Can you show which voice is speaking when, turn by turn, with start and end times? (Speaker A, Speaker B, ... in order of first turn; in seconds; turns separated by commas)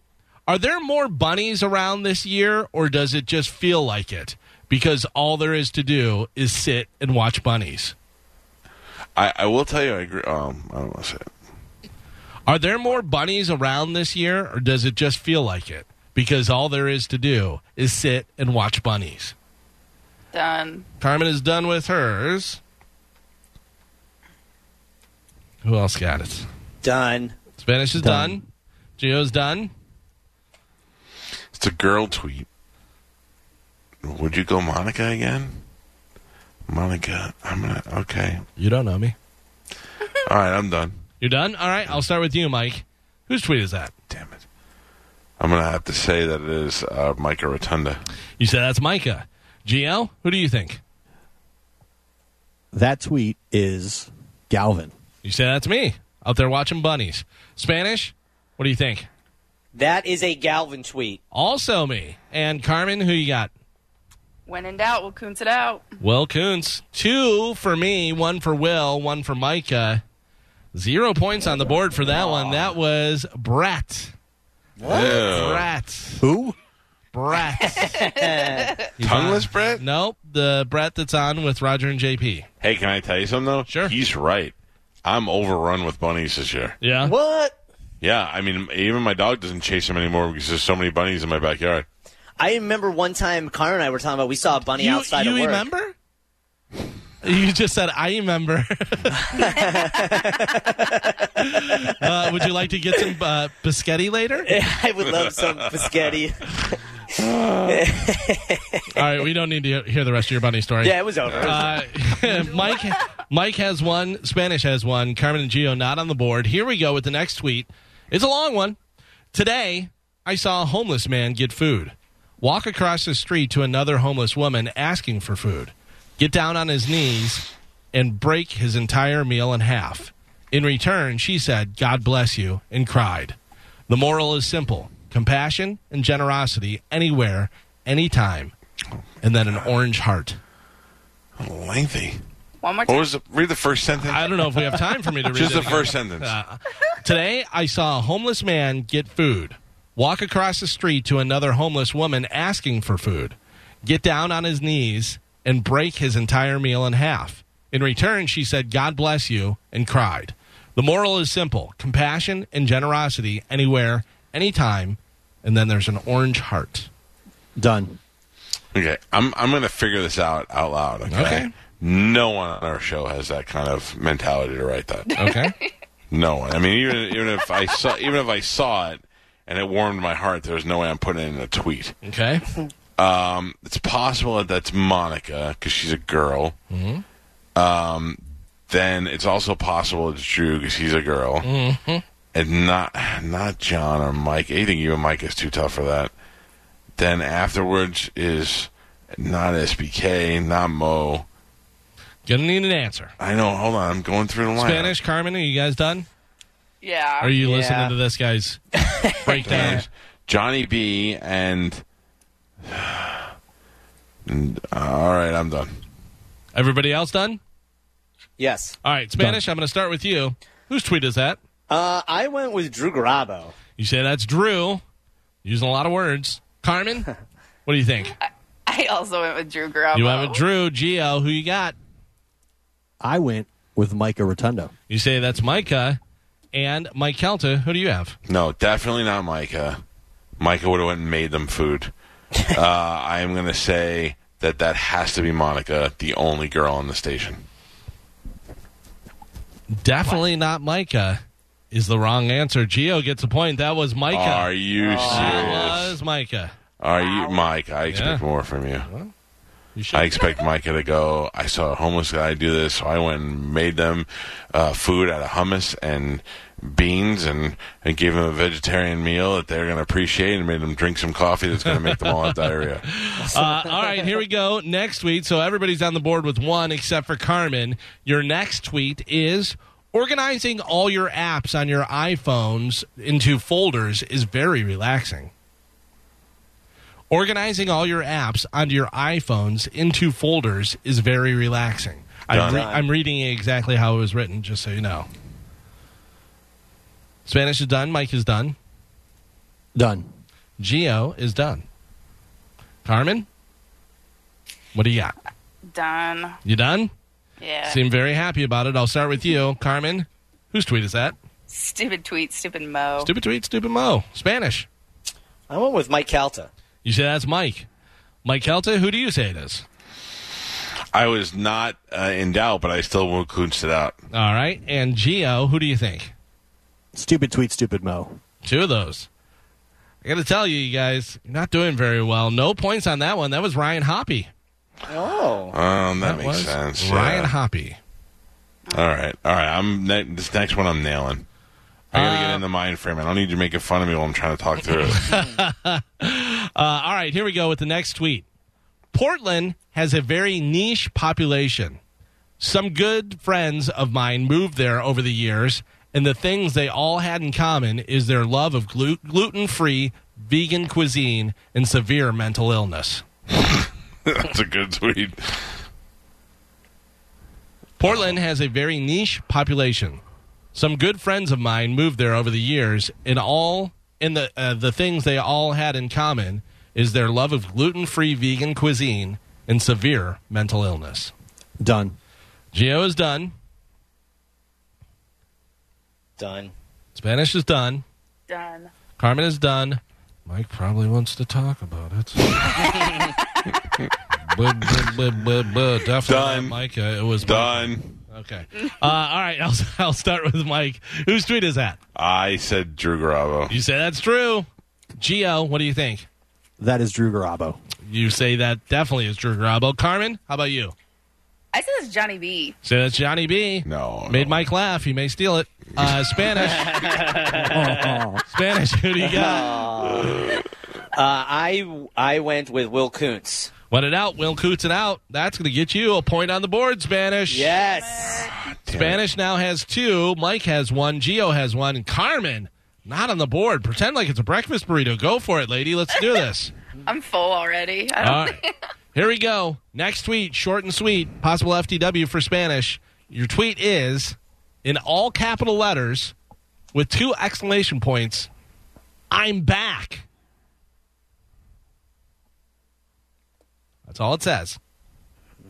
Speaker A: 0.5-8.0, Speaker B: 9.2-11.3, Speaker A: 12.5-19.4, Speaker C: 20.3-20.9, Speaker A: 21.0-22.6, Speaker A: 25.6-26.5, Speaker D: 26.8-27.4, Speaker A: 27.6-28.4, Speaker E: 28.0-28.4, Speaker A: 29.0-29.7, Speaker B: 31.5-32.5, Speaker B: 34.0-35.6, Speaker B: 36.7-38.5, Speaker A: 38.6-39.1, Speaker B: 40.2-41.0, Speaker A: 41.2-43.9, Speaker B: 44.1-44.4, Speaker B: 45.4-48.0, Speaker A: 48.4-50.8, Speaker E: 52.7-54.9, Speaker A: 55.2-59.1, Speaker D: 59.7-61.2, Speaker A: 61.3-63.5, Speaker C: 64.5-65.9, Speaker A: 66.0-70.0, Speaker A: 70.7-74.1, Speaker D: 72.1-72.7, Speaker D: 74.8-75.2, Speaker B: 74.8-75.7, Speaker A: 74.9-76.3, Speaker E: 76.2-76.6, Speaker A: 77.1-78.0, Speaker D: 77.9-78.8, Speaker C: 78.3-78.9, Speaker A: 79.0-82.5, Speaker B: 79.0-79.8, Speaker B: 82.6-86.8, Speaker A: 83.7-84.0, Speaker A: 86.8-87.1, Speaker D: 87.0-87.5, Speaker B: 88.0-91.9, Speaker D: 92.4-95.7, Speaker A: 94.8-95.9, Speaker A: 97.2-99.5, Speaker D: 99.2-101.3, Speaker A: 101.3-104.5, Speaker D: 104.5-106.8, Speaker B: 105.1-105.9, Speaker B: 107.2-107.9, Speaker D: 107.7-108.9, Speaker A: 108.9-118.8, Speaker D: 110.8-111.8, Speaker B: 111.3-111.8, Speaker A: 119.3-133.4, Speaker A: 133.9-138.5, Speaker A: 139.2-140.4, Speaker B: 141.4-142.2, Speaker C: 142.6-143.1, Speaker B: 142.9-146.3, Speaker A: 144.1-166.9, Speaker E: 167.6-168.0, Speaker B: 168.7-175.2, Speaker A: 171.1-171.5, Speaker C: 175.1-175.7, Speaker A: 175.2-175.6, Speaker B: 176.1-182.0, Speaker A: 182.0-182.5, Speaker B: 183.0-186.6, Speaker A: 186.7-187.0, Speaker B: 187.6-191.5, Speaker A: 191.4-192.0, Speaker B: 192.3-196.1, Speaker B: 197.0-201.3, Speaker A: 202.3-203.1, Speaker B: 203.2-204.9, Speaker A: 204.6-206.1, Speaker C: 206.8-207.3, Speaker A: 207.2-208.6, Speaker D: 207.4-207.9, Speaker D: 208.8-209.8, Speaker A: 209.2-209.9, Speaker B: 209.4-211.8, Speaker B: 212.7-213.2, Speaker B: 214.3-215.7, Speaker A: 216.5-217.4, Speaker D: 218.4-218.8, Speaker A: 218.8-221.4, Speaker D: 221.7-223.6, Speaker A: 223.8-224.8, Speaker A: 225.4-227.1, Speaker A: 227.7-228.2, Speaker C: 228.3-230.4, Speaker A: 229.9-231.8, Speaker E: 233.0-234.7, Speaker A: 234.9-236.0, Speaker A: 236.5-238.2, Speaker B: 238.3-239.8, Speaker B: 240.4-241.9, Speaker B: 242.5-247.4, Speaker A: 249.7-251.2, Speaker A: 251.7-254.5, Speaker B: 254.1-256.0, Speaker D: 254.8-255.8, Speaker A: 255.1-256.5, Speaker B: 256.8-258.9, Speaker C: 256.9-257.5, Speaker A: 257.9-258.2, Speaker A: 258.9-259.1, Speaker A: 259.8-260.2, Speaker B: 259.9-272.9, Speaker A: 271.7-285.3, Speaker D: 273.3-274.1, Speaker A: 287.1-295.1, Speaker B: 292.3-292.7, Speaker D: 292.4-292.8, Speaker A: 297.3-298.6, Speaker E: 299.8-300.1, Speaker A: 300.6-301.6, Speaker A: 302.9-303.3, Speaker A: 304.7-305.1, Speaker C: 305.7-306.4, Speaker A: 306.4-306.9, Speaker C: 307.4-307.8, Speaker A: 307.7-311.1, Speaker C: 311.5-313.1, Speaker A: 313.0-314.7, Speaker D: 315.5-316.5, Speaker A: 316.8-317.7, Speaker A: 318.2-319.6, Speaker B: 320.9-324.0, Speaker A: 324.1-326.1, Speaker E: 326.9-328.2, Speaker A: 328.4-329.1, Speaker A: 330.0-334.3, Speaker D: 334.9-335.6, Speaker B: 335.5-337.3, Speaker A: 336.0-337.8, Speaker B: 338.7-341.2, Speaker B: 341.9-345.2, Speaker A: 341.9-342.4, Speaker A: 344.9-348.2, Speaker A: 348.9-351.8, Speaker A: 352.4-363.0, Speaker B: 363.3-365.6, Speaker A: 367.8-370.0, Speaker B: 367.8-368.2, Speaker A: 370.5-381.1, Speaker E: 381.6-382.0, Speaker A: 382.5-383.3, Speaker D: 386.2-386.5, Speaker A: 386.9-387.8, Speaker C: 388.3-388.7, Speaker A: 389.0-392.8, Speaker A: 394.2-401.8, Speaker B: 396.1-396.6, Speaker B: 397.2-398.0, Speaker B: 401.9-403.6, Speaker A: 403.5-404.5, Speaker A: 405.0-406.1, Speaker E: 406.6-407.6, Speaker A: 407.9-410.8, Speaker C: 411.5-412.6, Speaker A: 412.6-417.1, Speaker B: 413.6-414.5, Speaker B: 415.8-416.1, Speaker D: 416.4-418.0, Speaker E: 417.3-418.2, Speaker A: 418.3-419.6, Speaker D: 419.0-423.5, Speaker B: 420.0-420.4, Speaker A: 423.7-427.5, Speaker D: 427.3-428.3, Speaker C: 427.5-428.3, Speaker B: 428.4-429.0, Speaker A: 428.7-436.5, Speaker C: 436.9-438.5, Speaker A: 438.0-438.4, Speaker A: 438.9-446.1, Speaker A: 446.7-448.3, Speaker A: 449.1-450.0, Speaker A: 453.9-454.6